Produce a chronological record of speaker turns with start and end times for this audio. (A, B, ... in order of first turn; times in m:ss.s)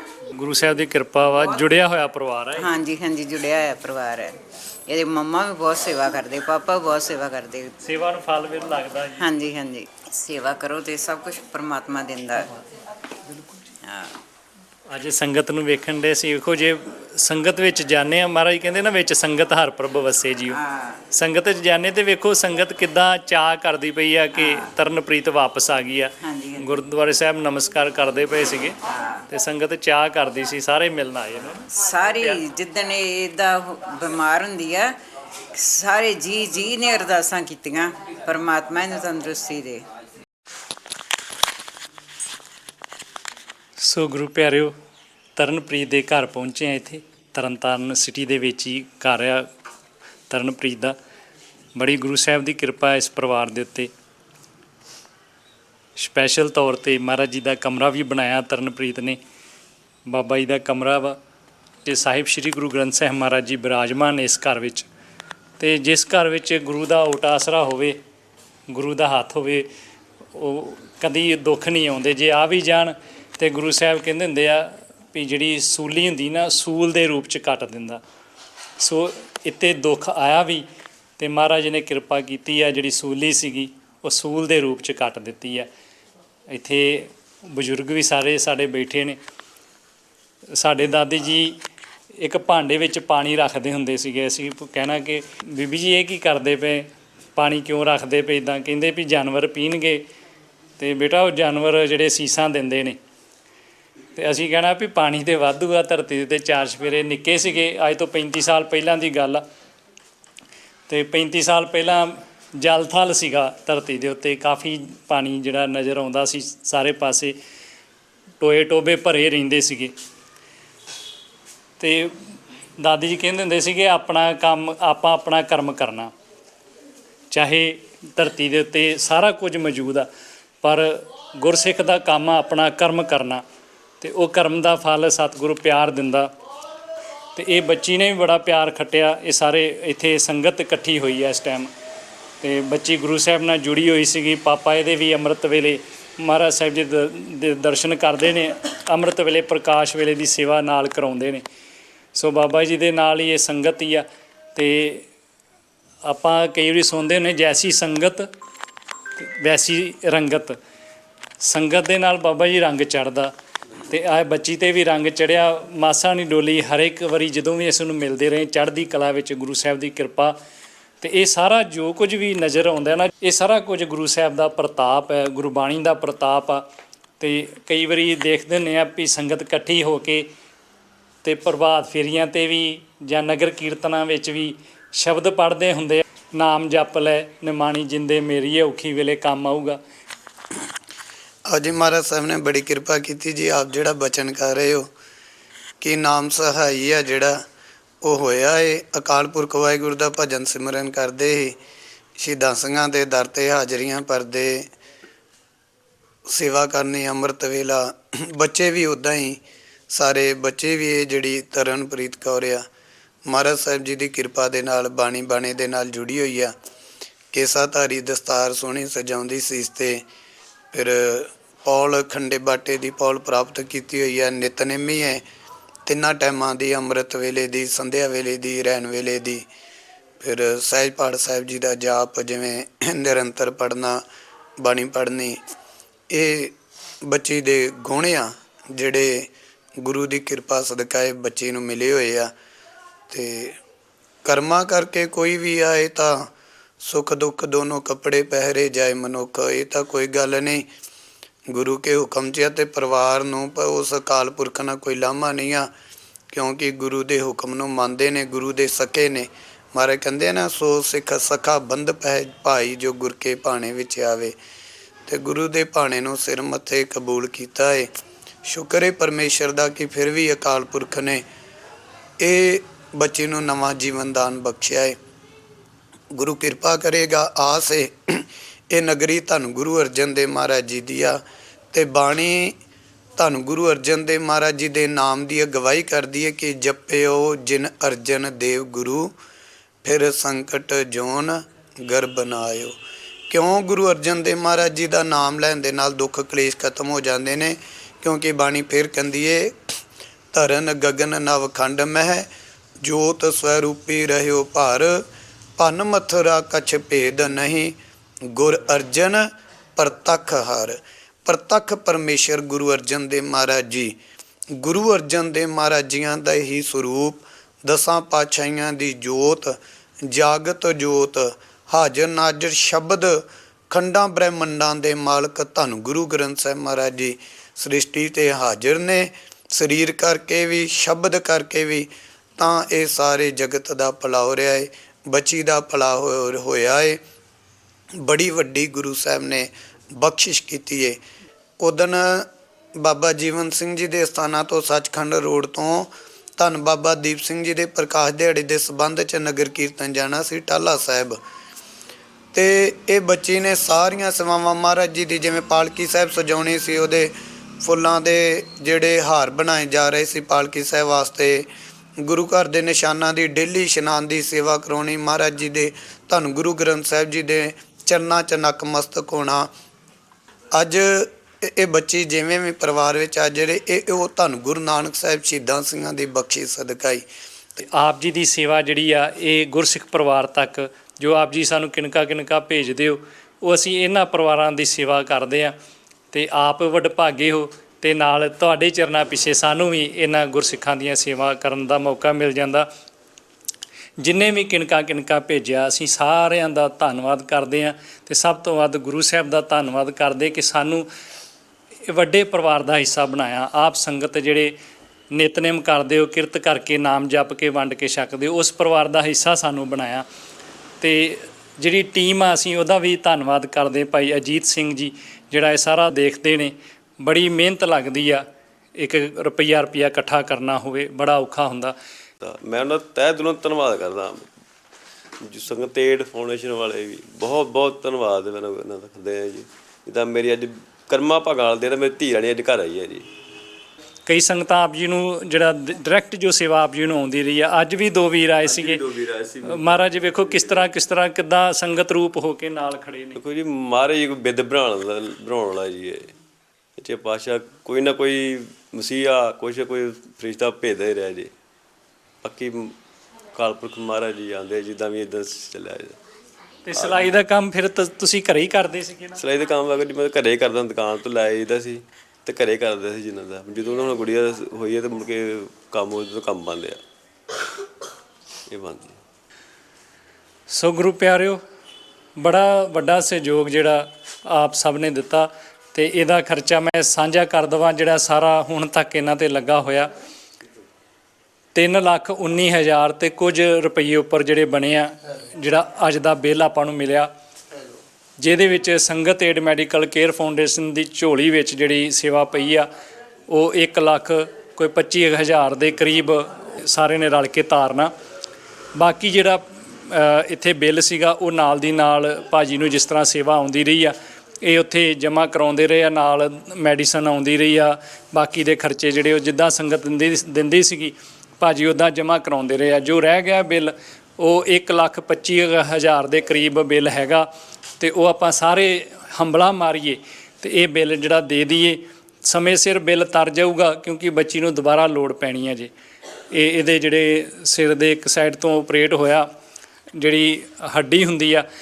0:00.4-0:02.7 A
0:02.6-0:04.4 B
0:04.9-0:07.8 B
0:07.8-0:09.2 A
0:09.2-0:12.5 B
0:13.8-0:14.2 B
0:14.9-0:20.6 A
0:20.5-0:21.0 B
0:21.1-0:28.8 A
0:24.4-0:24.7 B
0:26.2-0:26.8 B
0:28.9-0:29.2 B
0:29.3-0:32.4 A
0:31.7-0:34.9 B
0:35.6-0:39.8 B
0:43.8-0:44.7 A
0:45.4-0:49.5 A
0:50.3-0:51.0 A
0:51.8-0:53.9 A
0:56.0-0:59.2 A
1:00.1-1:01.2 A
1:01.8-1:04.9 A
1:05.6-1:08.0 A
1:08.7-1:09.7 A
1:10.3-1:18.0 A
1:18.8-1:20.7 A
1:21.2-1:25.7 A
1:26.5-1:29.2 A
1:30.6-1:31.6 A
1:32.2-1:40.0 A
1:40.8-1:43.0 A
1:44.2-1:49.4 A
1:50.9-1:57.4 A
1:58.4-1:59.9 A
2:01.8-2:02.2 A
2:02.8-2:06.1 A
2:07.3-2:10.1 A
2:10.6-2:13.4 A
2:14.0-2:16.3 A
2:17.4-2:21.7 A
2:22.4-2:31.4 A
2:32.2-2:35.1 A
2:36.1-2:38.3 A
2:39.2-2:40.6 A
2:41.4-2:43.3 A
2:43.9-2:50.4 A
2:51.0-2:56.6 A
2:57.2-3:00.3 A
3:01.2-3:09.8 A
3:11.5-3:14.9 C
3:15.8-3:17.4 C
3:18.0-3:21.6 C
3:22.2-3:24.7 C
3:26.3-3:32.7 C
3:33.3-3:36.6 C
3:37.3-3:40.0 C
3:40.7-3:45.2 C
3:45.9-3:49.5 C
3:50.2-3:54.0 C
3:54.6-3:55.4 C
3:56.1-4:02.3 C
4:03.1-4:03.6 C
4:04.2-4:06.3 C
4:06.8-4:10.7 C
4:11.5-4:15.7 C
4:16.3-4:24.4 C
4:25.1-4:27.9 C
4:28.4-4:31.2 C
4:32.2-4:35.0 C
4:36.1-4:41.2 C
4:41.7-4:42.6 C
4:43.2-4:49.1 C
4:49.8-4:52.8 C
4:53.3-4:59.7 C
5:00.3-5:02.3 C
5:02.8-5:05.1 C
5:05.6-5:07.8 C
5:08.3-5:14.0 C
5:14.5-5:37.0 C
5:38.0-5:41.0 C
5:41.6-5:51.2 C
5:52.3-6:01.5 C
6:02.0-6:09.5 C
6:10.5-6:17.1 C
6:17.7-6:25.6 A
6:26.1-6:32.7 A
6:34.0-6:40.9 A
6:41.9-6:44.5 A
6:45.1-6:50.0 A
6:50.8-6:58.2 A
6:58.8-7:01.8 A
7:02.2-7:04.3 D
7:05.2-7:13.1 D
7:14.1-7:18.8 A
7:18.4-7:20.8 D
7:19.4-7:23.2 A
7:23.2-7:26.1 D
7:26.8-7:31.3 D
7:32.2-7:32.8 D
7:33.4-7:36.0 D
7:36.7-7:39.2 A
7:36.7-7:37.2 D
7:39.2-7:46.8 D
7:48.5-7:49.0 D
7:50.5-7:51.4 A
7:52.2-7:59.9 A
8:01.6-8:07.1 A
8:08.2-8:12.7 A
8:13.3-8:17.9 A
8:18.8-8:37.3 A
8:37.8-8:45.7 A
8:46.3-8:49.3 A
8:50.0-8:51.5 A